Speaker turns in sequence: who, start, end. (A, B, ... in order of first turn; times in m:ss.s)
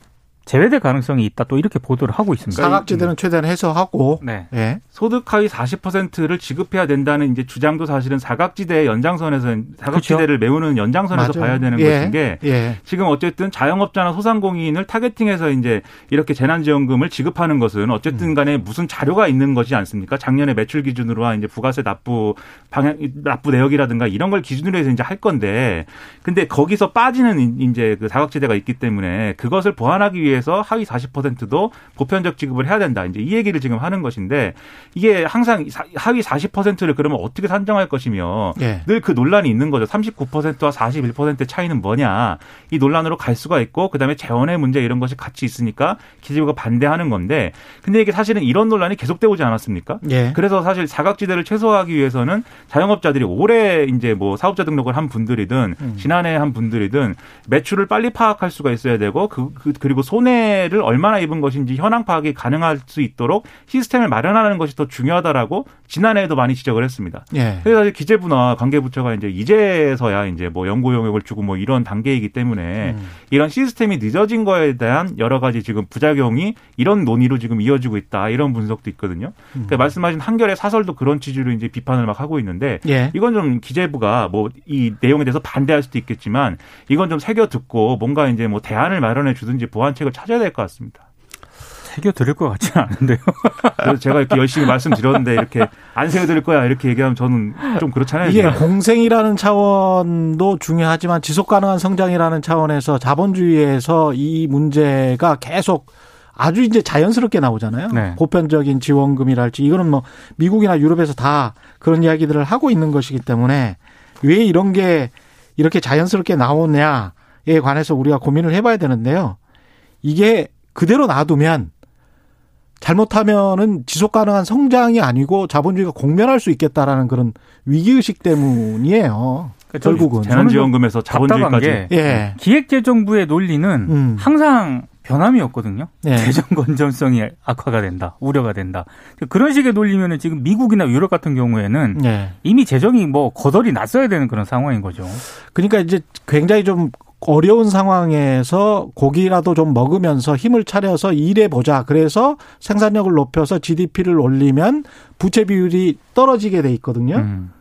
0:00.4-0:02.8 A
0:02.5-0:04.8 B
0:04.2-0:04.5 A
0:04.9-1:31.0 C
0:09.9-0:10.2 A
0:11.1-0:12.8 B
0:38.6-0:38.9 B
0:50.0-0:50.4 B
1:07.3-1:07.7 B
1:12.8-1:13.1 B
1:19.6-1:19.8 B
1:22.8-1:23.2 B
1:31.8-1:34.0 A
1:33.8-1:38.6 C
1:38.2-1:59.4 B
1:47.9-1:48.2 A
2:00.0-2:01.7 B
2:02.8-2:10.6 B
2:09.7-2:25.2 A
2:09.8-2:12.2 C
2:11.9-2:12.4 B
2:13.8-2:14.3 B
2:16.0-2:16.4 B
2:21.9-2:22.4 B
2:25.5-2:37.3 B
2:37.2-2:37.5 A